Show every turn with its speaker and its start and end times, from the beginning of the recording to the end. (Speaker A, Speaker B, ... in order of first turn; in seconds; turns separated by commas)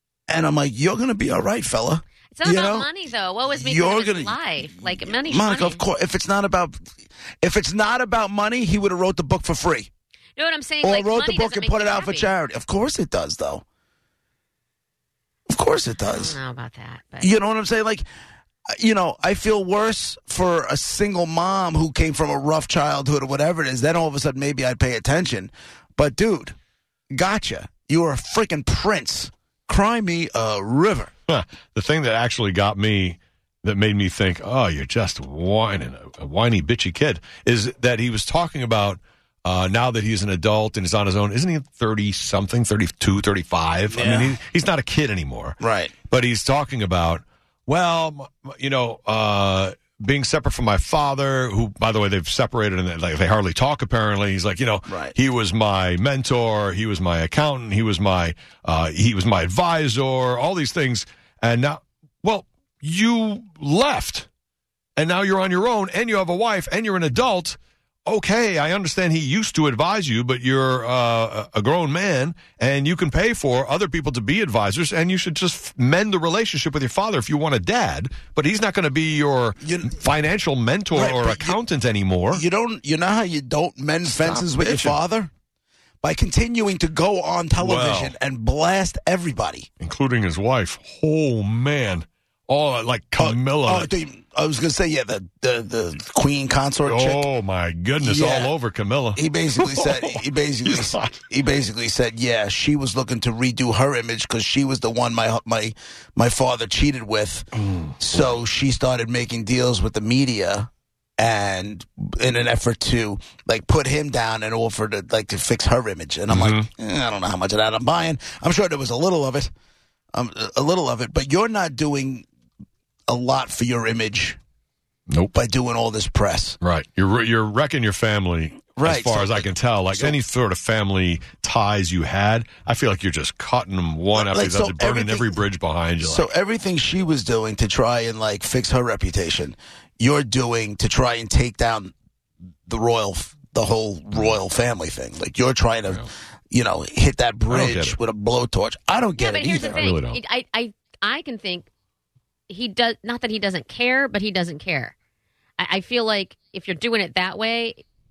Speaker A: 0.3-2.9, Speaker B: 2.3-5.8, Speaker A: 3.5-6.8, Speaker A: 7.4-9.9, Speaker B: 10.3-12.3, Speaker A: 10.8-13.6, Speaker A: 15.5-16.4, Speaker B: 16.1-17.3, Speaker A: 17.2-18.0, Speaker A: 18.7-26.6, Speaker A: 27.1-31.1, Speaker C: 31.3-64.3, Speaker A: 43.9-44.4, Speaker A: 45.6-45.9, Speaker A: 54.9-55.1, Speaker C: 65.0-82.4, Speaker A: 79.6-80.0, Speaker A: 80.9-81.6, Speaker A: 82.3-85.3, Speaker C: 84.0-85.0, Speaker A: 86.0-89.7, Speaker C: 87.6-88.1, Speaker C: 89.8-93.9, Speaker A: 93.2-97.3, Speaker C: 96.8-101.2, Speaker A: 98.0-98.5, Speaker A: 99.2-119.5, Speaker C: 107.7-108.3, Speaker C: 116.3-116.7, Speaker A: 120.1-122.2, Speaker A: 123.1-124.4, Speaker C: 125.1-125.3, Speaker A: 125.3-126.6, Speaker C: 126.6-136.3, Speaker A: 128.7-130.2, Speaker A: 134.2-135.4, Speaker A: 136.0-141.9, Speaker A: 142.7-149.8, Speaker C: 147.5-148.0, Speaker B: 149.2-151.7, Speaker C: 149.7-150.2, Speaker B: 152.5-154.9, Speaker B: 155.6-157.8